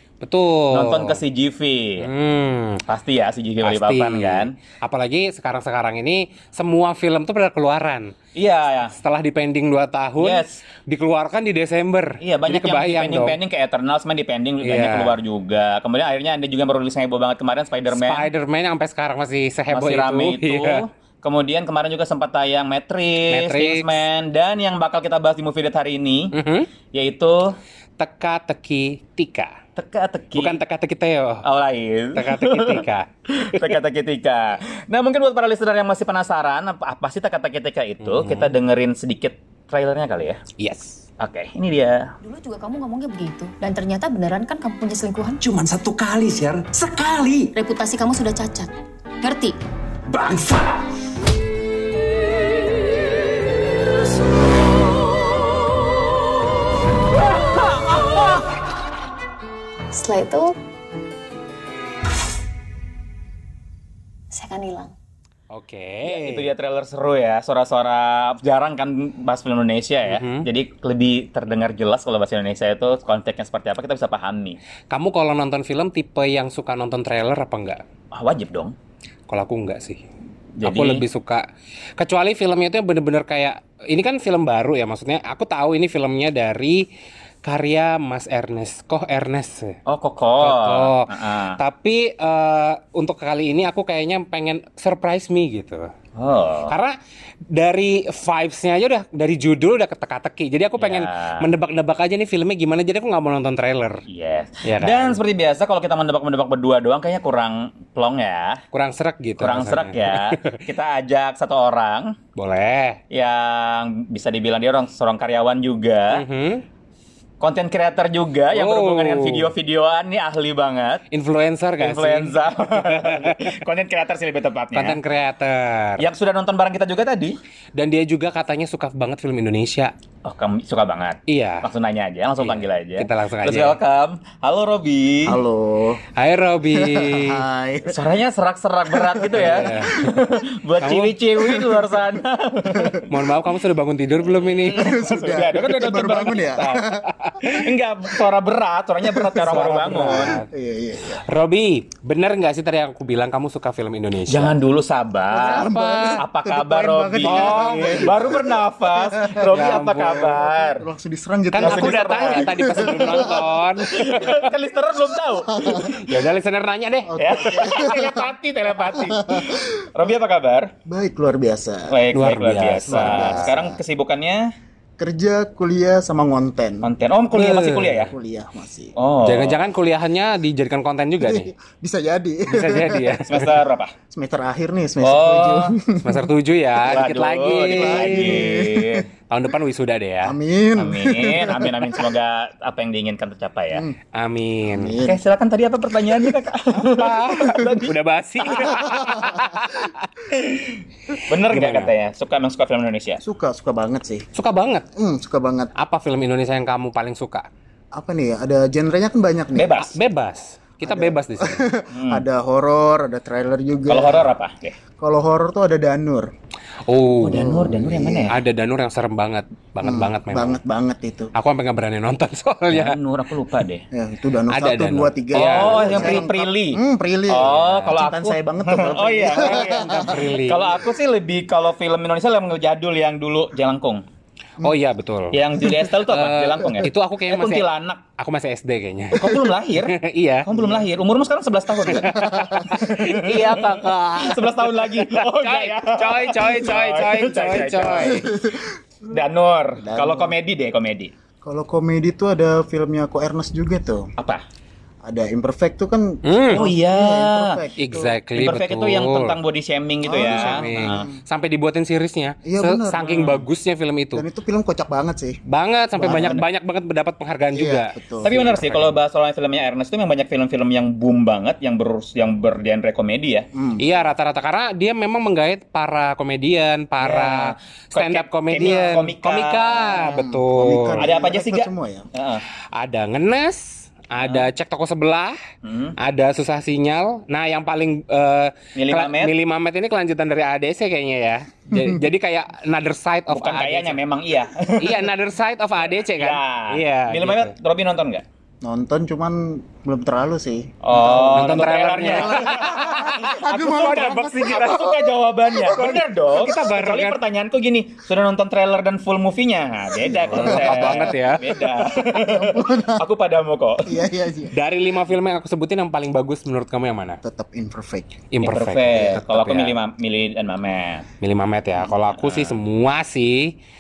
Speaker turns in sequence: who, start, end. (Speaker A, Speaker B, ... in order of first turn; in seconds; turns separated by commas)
Speaker A: 0.2-1.2, Speaker B: 0.7-2.1, Speaker A: 2.0-2.8, Speaker B: 2.9-4.6, Speaker A: 3.6-8.2, Speaker B: 8.4-8.9, Speaker A: 8.9-13.4, Speaker B: 10.2-10.6, Speaker B: 12.2-18.3, Speaker A: 14.6-15.2, Speaker A: 17.9-20.8, Speaker B: 19.7-26.4, Speaker A: 23.3-24.0, Speaker A: 26.3-26.7, Speaker B: 26.9-27.6, Speaker A: 28.0-29.6, Speaker B: 29.8-30.6, Speaker A: 30.4-31.4, Speaker B: 31.4-40.4, Speaker A: 32.1-33.6, Speaker A: 38.0-38.5, Speaker A: 40.6-41.0, Speaker B: 41.2-42.1, Speaker C: 42.2-45.4, Speaker D: 45.4-47.5, Speaker C: 47.6-49.6, Speaker D: 50.1-50.9, Speaker C: 59.9-60.5, Speaker C: 64.3-64.9, Speaker A: 65.5-66.5, Speaker B: 66.0-74.6, Speaker A: 70.1-70.5, Speaker A: 74.9-77.8, Speaker B: 78.1-78.8, Speaker A: 79.3-80.0, Speaker B: 80.6-81.0, Speaker A: 80.6-81.5, Speaker A: 82.0-86.9, Speaker A: 87.4-89.8, Speaker B: 89.9-91.6, Speaker A: 90.4-95.9, Speaker B: 96.2-96.8, Speaker A: 96.7-96.9, Speaker A: 97.5-104.0, Speaker B: 100.8-101.5, Speaker B: 104.1-108.6, Speaker A: 104.6-105.2, Speaker A: 108.7-110.6, Speaker B: 109.4-112.2, Speaker A: 112.4-113.0, Speaker B: 113.1-116.2, Speaker A: 116.1-116.6, Speaker B: 117.4-121.0, Speaker A: 118.5-119.5, Speaker A: 121.1-123.6, Speaker B: 121.8-125.0, Speaker A: 124.7-126.0, Speaker B: 126.0-127.3, Speaker A: 127.8-129.9, Speaker B: 130.2-135.4, Speaker A: 131.3-131.7, Speaker A: 132.4-133.8, Speaker E: 135.3-136.0, Speaker A: 136.2-137.4, Speaker E: 136.7-138.0, Speaker B: 137.9-143.1, Speaker E: 138.9-139.9, Speaker A: 139.3-140.2, Speaker A: 140.8-141.2, Speaker E: 141.4-142.0, Speaker E: 142.7-143.0, Speaker A: 143.1-144.8, Speaker B: 144.5-150.4, Speaker E: 144.6-147.6, Speaker A: 147.1-147.4, Speaker E: 149.1-151.3, Speaker A: 149.4-150.5, Speaker A: 151.3-154.6, Speaker B: 154.3-160.9, Speaker E: 155.3-159.6, Speaker A: 155.3-156.2, Speaker A: 157.2-158.1, Speaker A: 159.5-160.4, Speaker E: 160.7-163.6, Speaker A: 161.5-164.5, Speaker B: 161.6-163.3, Speaker B: 163.9-165.8, Speaker E: 165.4-166.0, Speaker A: 165.6-167.6, Speaker E: 167.1-168.3, Speaker B: 167.2-170.7, Speaker E: 168.8-169.8, Speaker E: 170.9-172.0, Speaker B: 171.9-174.5, Speaker A: 172.1-173.5, Speaker E: 172.8-173.8, Speaker E: 175.0-176.9, Speaker B: 176.8-178.1, Speaker A: 177.3-178.1, Speaker E: 178.1-178.9, Speaker B: 179.0-179.6, Speaker A: 179.2-181.5, Speaker E: 181.2-183.2, Speaker A: 182.5-183.5, Speaker B: 183.3-183.9, Speaker E: 184.1-186.3, Speaker B: 185.0-185.8, Speaker A: 186.0-188.5, Speaker B: 186.8-189.1, Speaker E: 187.7-189.1, Speaker A: 189.3-190.4, Speaker E: 190.2-192.1, Speaker B: 190.8-193.8, Speaker A: 194.1-195.0, Speaker E: 194.7-195.2, Speaker B: 195.0-198.9, Speaker A: 196.8-200.1, Speaker E: 198.6-199.6, Speaker B: 200.3-203.2, Speaker A: 201.1-201.9, Speaker E: 203.2-204.3, Speaker A: 204.3-204.9, Speaker E: 205.0-205.7, Speaker A: 205.8-207.5, Speaker E: 207.9-209.8, Speaker B: 209.6-210.0, Speaker A: 209.8-211.7, Speaker E: 210.8-214.3, Speaker B: 211.9-212.2, Speaker B: 213.9-214.8, Speaker E: 215.0-216.3, Speaker A: 216.8-217.6, Speaker B: 217.2-218.4, Speaker E: 217.3-218.3, Speaker A: 218.3-220.6, Speaker E: 219.8-221.3, Speaker A: 221.3-223.0, Speaker B: 222.7-223.8, Speaker E: 223.9-230.3, Speaker A: 224.5-226.2, Speaker B: 225.3-234.0, Speaker A: 227.4-228.0, Speaker A: 229.4-230.6, Speaker A: 234.6-237.7, Speaker B: 235.3-238.0, Speaker A: 238.2-240.5, Speaker B: 239.1-248.3, Speaker E: 240.5-240.9, Speaker E: 241.8-242.8, Speaker A: 241.8-248.2, Speaker E: 248.0-248.8, Speaker B: 249.1-251.1, Speaker E: 249.8-250.3, Speaker E: 251.4-254.1, Speaker E: 255.0-258.2, Speaker A: 256.2-256.7, Speaker B: 256.5-257.6, Speaker A: 257.8-259.4, Speaker B: 258.4-261.1, Speaker E: 260.1-261.2, Speaker A: 260.2-264.3, Speaker E: 262.4-263.4, Speaker E: 264.1-265.4, Speaker A: 265.5-269.0, Speaker E: 266.0-266.4, Speaker B: 266.0-266.4, Speaker E: 267.5-268.4, Speaker B: 268.2-273.5, Speaker E: 273.5-274.0, Speaker A: 273.8-281.0, Speaker B: 277.0-280.1, Speaker E: 279.9-282.1, Speaker B: 281.0-282.4, Speaker A: 282.7-285.4, Speaker B: 284.2-284.5, Speaker B: 285.6-286.0, Speaker A: 286.0-294.0, Speaker B: 288.8-289.3, Speaker E: 291.7-292.0, Speaker B: 293.3-295.1, Speaker A: 294.8-297.5, Speaker B: 296.1-298.2, Speaker E: 298.6-306.1, Speaker B: 300.8-314.0, Speaker A: 301.3-303.4, Speaker A: 306.4-307.2, Speaker E: 310.0-311.2, Speaker A: 310.3-311.5, Speaker E: 312.0-313.0, Speaker E: 313.8-314.5, Speaker A: 314.5-317.2, Speaker E: 317.2-318.2, Speaker A: 318.3-319.8, Speaker B: 318.4-321.1, Speaker A: 321.2-323.6, Speaker B: 322.2-322.6